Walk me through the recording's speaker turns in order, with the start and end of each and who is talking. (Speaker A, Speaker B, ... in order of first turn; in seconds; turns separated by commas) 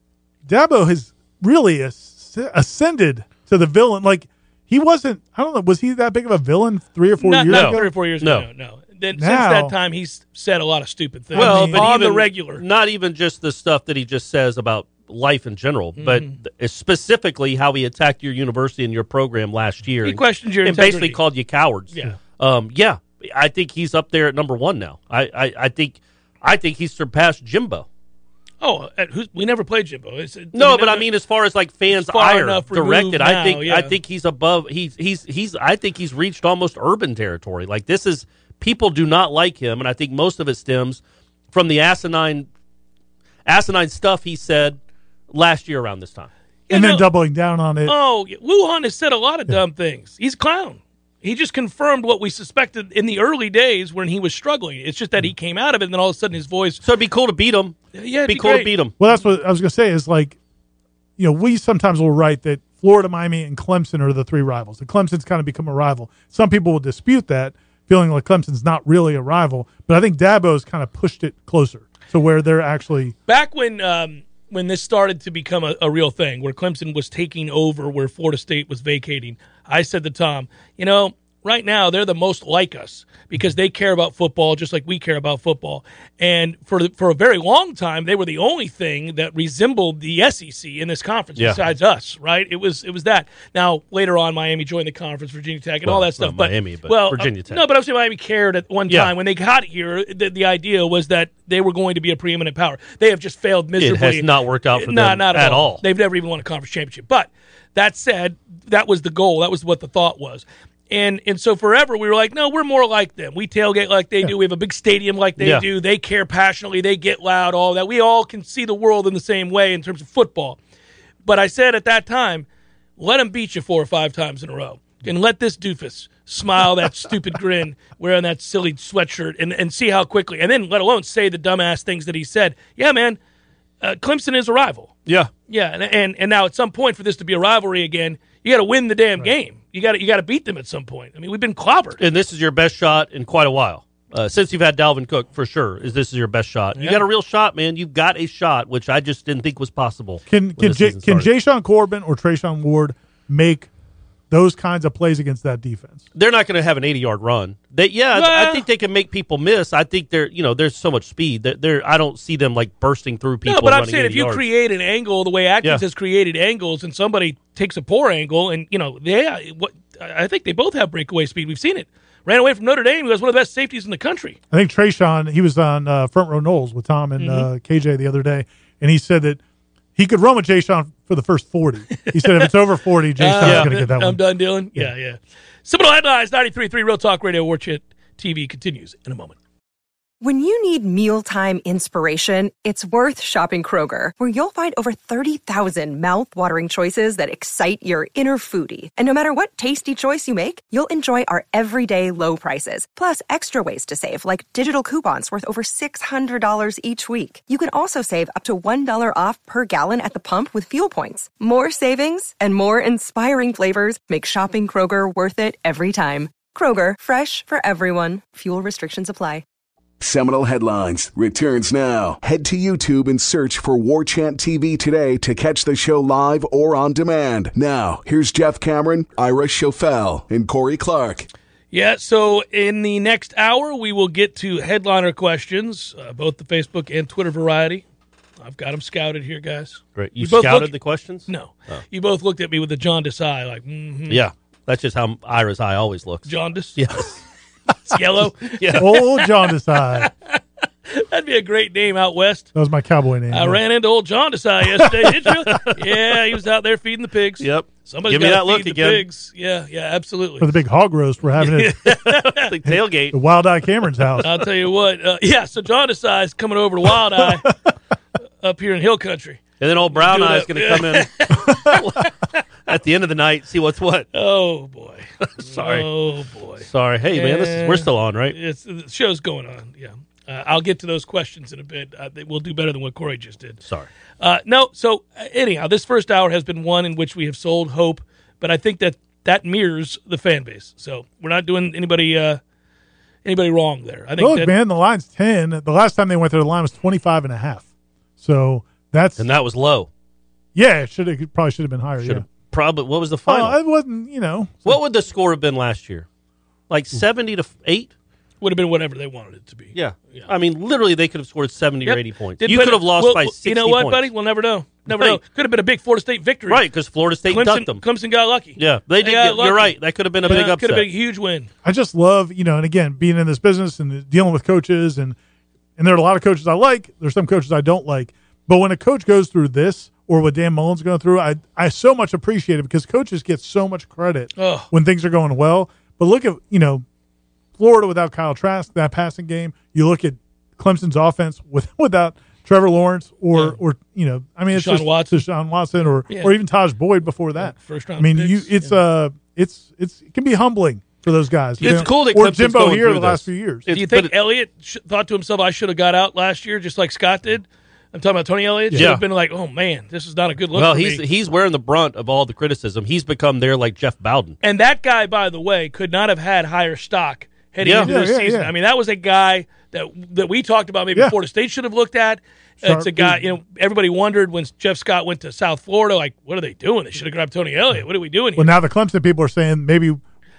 Speaker A: 0.5-7.9, Speaker B: 7.2-12.6, Speaker C: 7.5-8.4, Speaker A: 9.1-9.7, Speaker A: 11.3-11.9, Speaker C: 11.3-27.9, Speaker B: 16.0-16.4, Speaker B: 20.0-21.2, Speaker B: 21.9-22.2, Speaker B: 28.6-31.1, Speaker C: 30.5-41.0, Speaker B: 31.9-33.9, Speaker C: 41.5-42.5, Speaker C: 43.5-44.8, Speaker C: 45.3-46.3, Speaker B: 46.7-47.1, Speaker A: 46.7-47.9, Speaker B: 47.8-56.8, Speaker C: 56.8-58.9, Speaker B: 57.9-58.7, Speaker A: 59.0-60.4, Speaker A: 61.2-73.1, Speaker B: 73.3-120.6, Speaker C: 95.8-97.6, Speaker C: 103.8-105.8, Speaker C: 115.4-115.6, Speaker B: 121.2-122.5, Speaker B: 123.0-133.2, Speaker B: 133.8-134.9, Speaker C: 135.1-135.3, Speaker B: 135.5-142.0, Speaker C: 142.0-151.3, Speaker B: 146.8-147.0, Speaker A: 150.3-153.7, Speaker A: 154.3-156.0, Speaker C: 156.1-164.4, Speaker B: 158.1-158.7, Speaker B: 163.4-174.4, Speaker A: 174.5-179.4, Speaker B: 177.2-177.5, Speaker A: 179.9-184.2, Speaker B: 182.0-182.5, Speaker B: 183.2-189.3, Speaker C: 183.4-183.7, Speaker D: 190.2-219.4, Speaker E: 220.0-231.3, Speaker B: 231.7-237.8, Speaker B: 238.4-240.7, Speaker C: 239.9-241.8, Speaker B: 241.2-244.2, Speaker C: 244.1-247.2, Speaker B: 246.2-246.8, Speaker B: 247.9-249.3, Speaker C: 248.5-248.9, Speaker A: 248.8-250.1, Speaker B: 249.9-252.5, Speaker A: 252.5-253.6, Speaker B: 253.3-260.5, Speaker A: 254.8-255.3, Speaker C: 255.5-256.0, Speaker C: 257.4-259.0, Speaker A: 260.4-261.8, Speaker B: 261.4-262.5, Speaker C: 261.9-263.1, Speaker A: 262.7-264.3, Speaker B: 264.2-267.5, Speaker B: 268.4-269.4, Speaker C: 269.6-274.1, Speaker B: 269.9-272.1, Speaker B: 274.1-283.6, Speaker C: 275.2-275.9, Speaker C: 276.6-278.3, Speaker B: 284.2-292.4, Speaker B: 293.2-294.5, Speaker A: 294.2-297.6, Speaker A: 298.2-299.2, Speaker C: 299.2-299.9, Speaker A: 300.5-302.2, Speaker C: 302.0-303.6, Speaker A: 303.3-304.8, Speaker C: 304.6-306.1, Speaker C: 306.7-307.9, Speaker B: 308.4-310.3, Speaker C: 309.7-314.1, Speaker B: 311.8-316.6, Speaker C: 314.9-315.2, Speaker C: 316.5-317.8, Speaker B: 317.3-321.5, Speaker C: 318.6-320.9, Speaker A: 321.6-325.2, Speaker A: 325.8-336.8, Speaker B: 334.4-334.7, Speaker A: 337.6-353.7, Speaker B: 344.5-345.2, Speaker B: 346.1-346.3, Speaker B: 347.4-348.7, Speaker C: 351.6-354.1, Speaker B: 351.6-351.9, Speaker B: 353.7-361.0, Speaker C: 358.7-359.0, Speaker C: 360.5-364.4, Speaker B: 364.4-378.5, Speaker C: 367.6-367.9, Speaker A: 367.8-368.5, Speaker A: 372.6-373.2, Speaker A: 378.4-380.0